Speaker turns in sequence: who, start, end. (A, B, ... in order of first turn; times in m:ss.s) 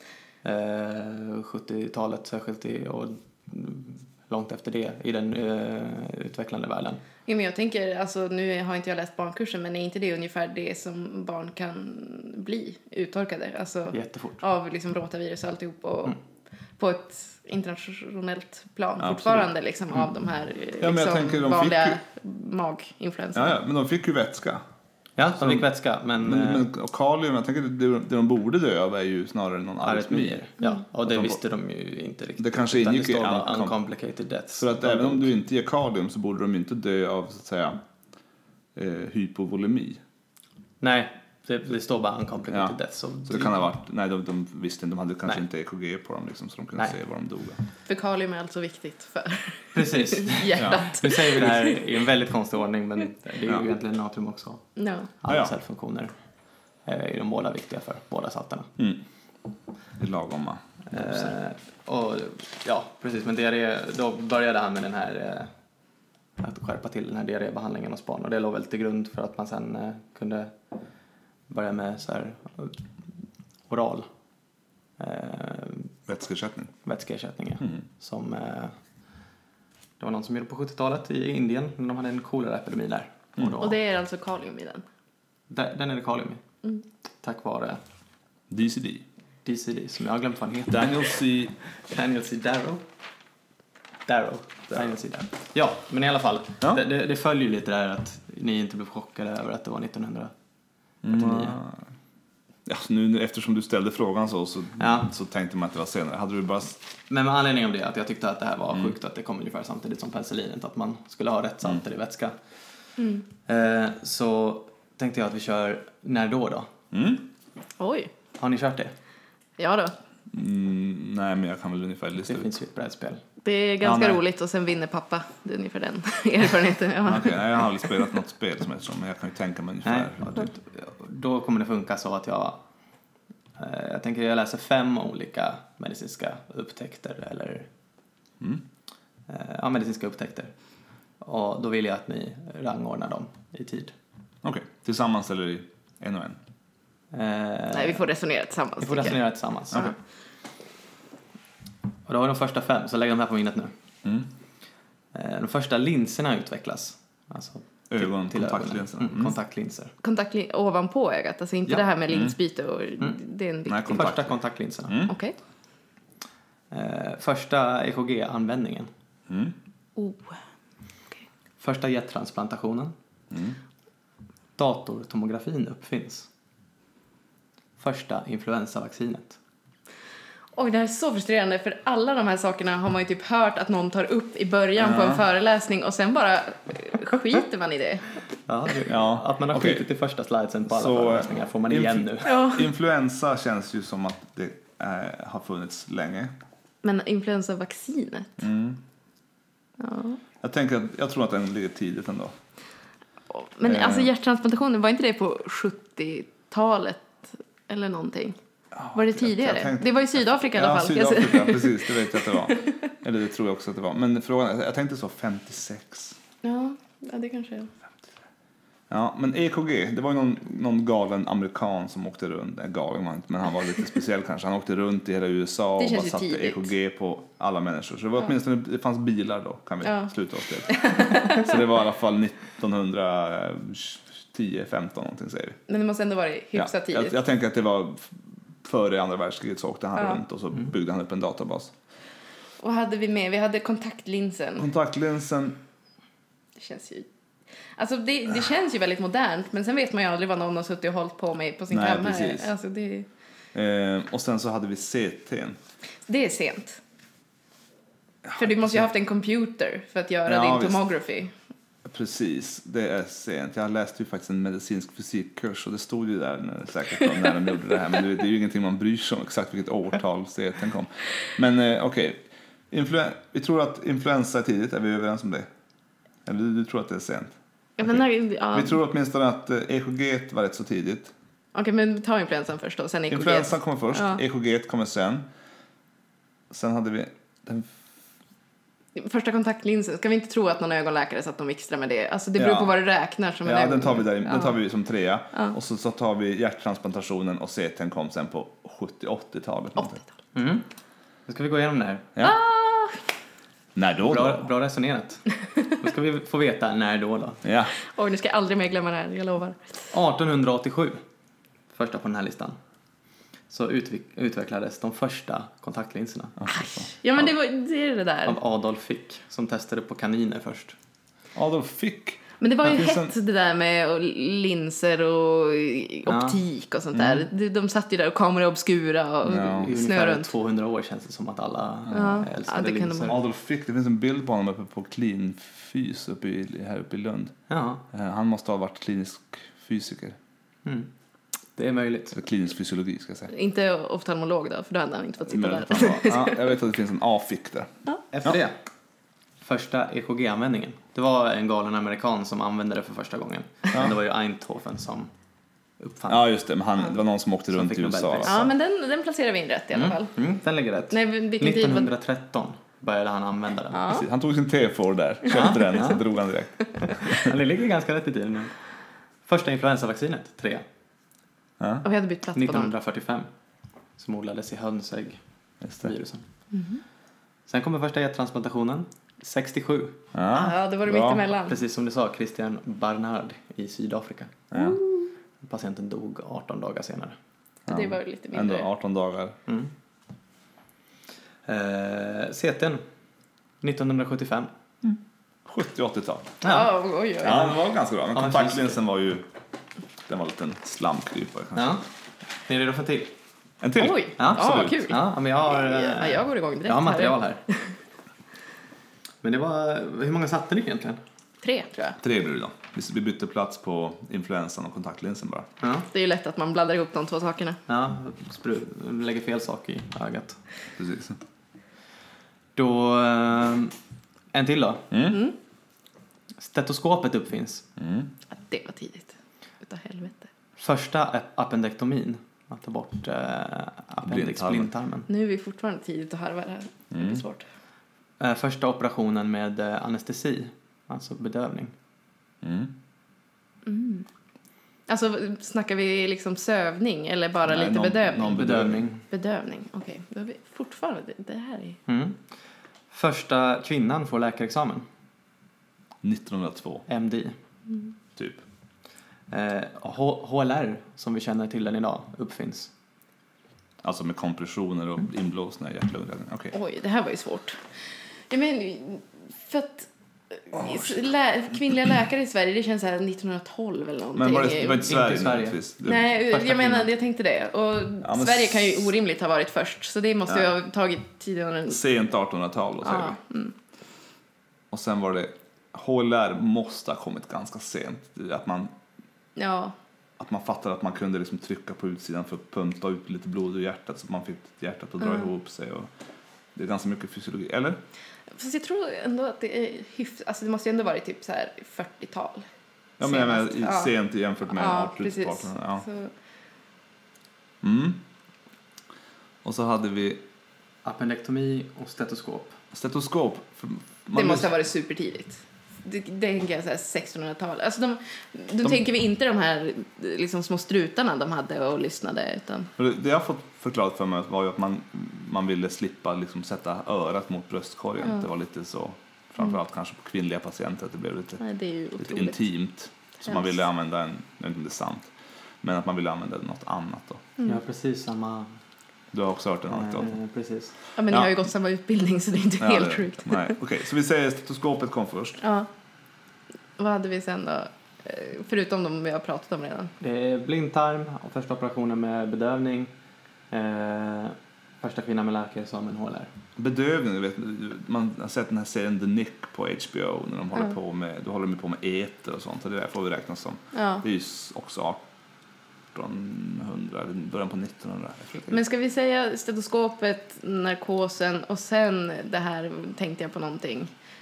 0:00.4-0:07.0 A
0:07.2-0:16.2 B
0:13.9-0:14.4 A
0:16.8-0:23.6 B
0:19.0-0:19.5 C
0:20.8-0:22.0 C
0:23.3-0:24.6 C
0:25.2-0:26.7 A
0:25.4-0:25.6 C
0:26.2-0:30.4 C
0:29.8-0:35.3 A
0:31.0-0:31.4 C
0:32.4-0:33.7 C
0:34.6-0:37.8 C
0:38.7-0:40.0 C
0:40.8-0:43.6 A
0:42.5-0:47.6 C
0:47.8-0:51.8 B
0:49.7-0:54.6 A
0:54.8-0:55.1 B
0:55.2-0:56.1 A
0:55.3-0:55.5 C
0:56.8-0:58.7 A
1:00.0-1:01.3 C
1:00.9-1:05.5 A
1:06.4-1:10.5 A
1:11.5-1:12.8 A
1:13.7-1:14.1 A
1:15.0-1:15.9 A
1:16.1-1:16.7 C
1:16.8-1:18.8 A
1:20.0-1:23.8 A
1:23.6-1:24.8 B
1:25.5-1:26.4 A
1:27.2-1:27.8 A
1:28.5-1:29.0 C
1:29.4-1:31.0 A
1:30.7-1:31.6 C
1:31.7-1:32.8 A
1:34.0-1:40.3 A
1:41.0-1:41.8 C
1:41.0-1:41.6 A
1:42.6-1:46.8 C
1:44.8-1:45.1 A
1:47.1-1:52.4 A
1:53.0-1:53.2 B
1:53.5-1:56.7 A
1:56.9-1:57.2 C
1:57.8-1:58.1 B
1:58.4-1:58.9 A
1:59.6-2:00.0 B
2:00.3-2:02.5 C
2:02.2-2:03.2 A
2:03.4-2:07.7 B
2:03.8-2:04.2 C
2:07.0-2:10.4 C
2:09.8-2:12.6 A
2:13.6-2:17.7 A
2:18.4-2:18.6 C
2:19.3-2:20.5 A
2:21.2-2:23.9 A
2:24.4-2:26.4 C
2:27.1-2:28.0 A
2:27.7-2:29.2 B
2:28.8-2:29.9 A
2:32.1-2:33.7 A
2:35.1-2:39.9 A
2:37.9-2:39.3 C
2:40.0-2:44.1 B
2:42.1-2:42.3 C
2:43.7-2:44.4 C
2:43.9-2:45.0 A
2:44.9-2:45.1 C
2:45.1-2:45.3 B
2:46.7-2:48.9 A
2:49.3-2:49.5 C
2:50.0-2:50.4 B
2:51.6-2:52.9 A
2:53.3-2:53.6 C
2:54.6-2:56.3 A
2:57.8-2:59.4 A
3:00.5-3:08.1 B
3:04.8-3:05.2 C
3:08.5-3:12.3 A
3:08.8-3:09.8 C
3:10.7-3:16.3 C
3:12.2-3:12.7 B
3:16.8-3:18.4 B
3:18.4-3:18.8 C
3:19.8-3:20.2 B
3:20.4-3:22.3 C
3:23.3-3:28.4 B
3:23.6-3:24.1 C
3:28.7-3:36.2 C
3:28.9-3:32.6 B
3:36.4-3:37.7 B
3:38.9-3:55.6 C
3:45.8-3:46.7 B
3:49.8-3:50.1 B
3:50.6-3:51.6 B
3:55.7-3:57.2 B
3:56.6-4:01.7 C
4:02.6-4:04.7 B
4:04.6-4:05.6 C
4:06.6-4:07.1 B
4:07.8-4:13.1 B
4:11.7-4:12.5 C
4:13.5-4:15.6 C
4:16.1-4:16.8 B
4:18.3-4:18.8 C
4:18.4-4:21.3 B
4:20.2-4:20.8 C
4:21.8-4:35.5 C
4:36.2-4:38.0 C
4:37.8-4:38.8 B
4:38.5-4:41.1 C
4:41.5-4:44.2 B
4:43.1-4:45.2 C
4:46.5-4:47.7 C
4:49.0-4:54.6 B
4:52.4-4:52.7 C
4:53.4-5:00.0 C
5:00.3-5:00.6 A
5:01.3-5:02.1 A
5:02.2-5:03.0 B
5:03.7-5:04.5 C
5:04.0-5:07.4 A
5:07.4-5:07.7 C
5:07.8-5:09.7 B
5:09.9-5:11.0 A
5:11.7-5:12.6 A
5:13.5-5:16.4 A
5:16.4-5:16.9 C
5:16.5-5:18.4 B
5:18.2-5:20.8 A
5:21.3-5:23.1 C
5:22.4-5:30.3 B
5:26.0-5:26.4 A
5:26.9-5:27.2 C
5:29.2-5:29.7 C
5:29.5-5:33.2 A
5:31.9-5:33.2 B
5:33.1-5:37.3 C
5:37.5-5:37.8 A
5:37.9-5:40.2 C
5:40.6-5:40.9 A
5:41.6-5:42.2 A
5:42.1-5:43.3 C
5:43.3-5:46.5 B
5:45.3-5:47.7 C
5:48.1-5:48.6 A
5:49.4-5:55.1 A
5:55.8-5:56.3 A
5:56.1-5:58.4 C
5:57.5-5:58.5 A
5:58.2-6:00.2 B
5:59.7-6:03.8 A
6:00.9-6:01.9 B
6:03.7-6:04.0 B
6:03.9-6:07.3 C
6:05.3-6:06.0 A
6:07.0-6:08.5 A
6:09.2-6:10.6 A
6:11.6-6:11.8 C
6:11.8-6:12.7 B
6:12.3-6:13.3 A
6:14.0-6:15.2 A
6:15.6-6:15.9 C
6:15.8-6:16.2 A
6:16.5-6:16.8 B
6:17.5-6:20.0 A
6:20.1-6:21.2 C
6:20.3-6:21.6 B
6:21.5-6:24.4 A
6:24.5-6:24.8 C
6:24.5-6:25.1 B
6:25.4-6:27.2 A
6:27.7-6:29.4 C
6:27.7-6:28.7 B
6:31.4-6:32.8 A
6:33.6-6:34.5 A
6:34.8-6:36.4 C
6:36.4-6:36.7 A
6:36.4-6:37.5 B
6:37.2-6:39.3 C
6:38.1-6:38.8 A
6:40.1-6:41.7 C
6:41.5-6:41.8 A
6:42.4-6:43.1 A
6:43.6-6:44.9 C
6:43.8-6:47.6 B
6:44.2-6:47.4 A
6:49.2-6:51.0 A
6:51.4-6:52.0 B
6:52.0-6:55.5 C
6:55.6-6:55.9 A
6:55.9-6:57.6 B
6:57.7-7:00.4 A
7:00.8-7:01.2 C
7:02.6-7:03.7 A
7:04.3-7:04.9 A
7:04.9-7:05.2 C
7:05.1-7:05.3 B
7:06.4-7:07.6 A
7:07.8-7:08.1 C
7:08.3-7:09.1 B
7:09.6-7:10.3 B
7:10.6-7:15.1 A
7:14.0-7:14.7 C
7:15.1-7:17.4 B
7:16.9-7:17.2 C
7:18.2-7:21.7 A
7:22.4-7:22.7 C
7:23.6-7:24.0 B
7:24.9-7:28.4 B
7:27.4-7:28.8 C
7:28.3-7:29.0 A
7:29.1-7:31.8 B
7:31.9-7:32.2 A
7:32.9-7:34.8 A
7:36.0-7:36.8 C
7:36.9-7:37.4 A
7:38.2-7:38.4 C
7:39.3-7:42.7 A
7:43.8-7:46.5 C
7:46.5-7:47.6 B
7:48.3-7:54.9 B
7:50.5-7:50.9 C
7:54.2-7:56.1 C
7:54.8-7:55.6 A
7:55.8-8:01.8 B
7:56.1-7:56.9 A
7:58.0-7:58.9 C
8:01.7-8:03.2 C
8:02.8-8:03.5 B
8:04.7-8:08.7 C
8:09.4-8:09.7 B
8:10.2-8:15.9 C
8:16.5-8:17.8 C
8:18.3-8:22.4 B
8:23.0-8:23.9 B
8:23.0-8:25.8 C
8:24.5-8:26.1 B
8:27.6-8:28.0 C
8:29.4-8:30.2 C
8:30.8-8:32.6 A
8:32.7-8:34.5 C
8:34.1-8:42.7 B
8:42.8-8:51.4 C
8:51.4-8:52.4 B
8:52.0-8:55.1 C
8:53.2-8:53.5 B
8:55.6-8:57.2 C
8:57.4-8:58.6 A
8:59.1-9:00.1 C
8:59.7-9:00.7 A
9:01.0-9:03.5 B
9:02.6-9:05.4 C
9:05.4-9:05.7 B
9:06.8-9:09.9 B
9:10.0-9:12.9 A
9:13.5-9:16.3 A
9:16.6-9:25.0 C
9:23.7-9:24.0 B
9:25.9-9:28.6 C
9:28.5-9:33.9 B